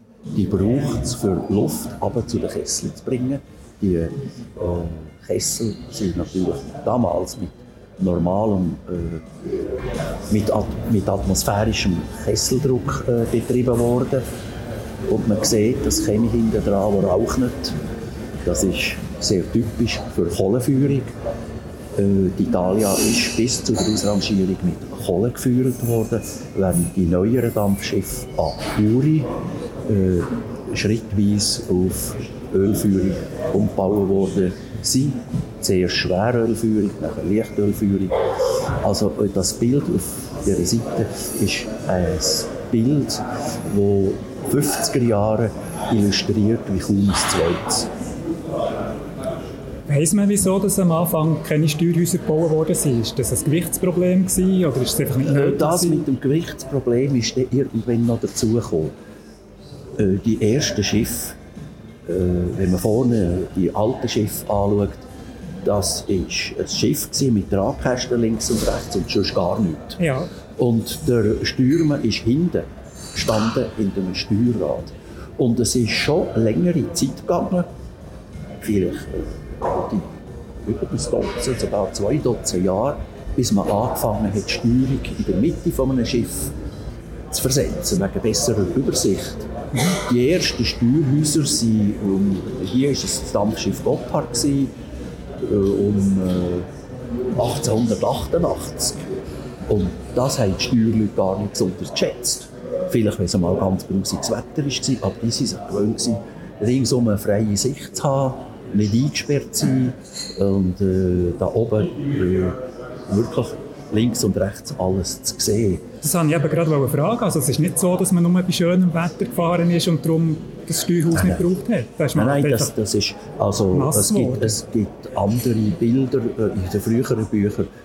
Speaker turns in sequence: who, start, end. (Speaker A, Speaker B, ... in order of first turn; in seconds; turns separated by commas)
Speaker A: 0.3-9.7, Speaker A: 10.3-14.2, Speaker A: 15.1-17.8, Speaker A: 18.4-21.1, Speaker A: 21.9-29.3, Speaker A: 29.9-38.2, Speaker A: 38.8-47.9, Speaker B: 49.9-56.0, Speaker A: 55.2-58.9, Speaker A: 60.0-61.4, Speaker A: 62.1-65.0, Speaker A: 65.6-70.0, Speaker B: 70.0-70.3, Speaker A: 70.6-77.7, Speaker A: 78.6-86.5, Speaker A: 87.3-94.7, Speaker A: 95.4-96.7, Speaker A: 97.3-99.0, Speaker A: 99.7-115.8, Speaker B: 116.0-122.7, Speaker A: 121.1-121.5, Speaker A: 122.1-127.7, Speaker B: 123.7-124.5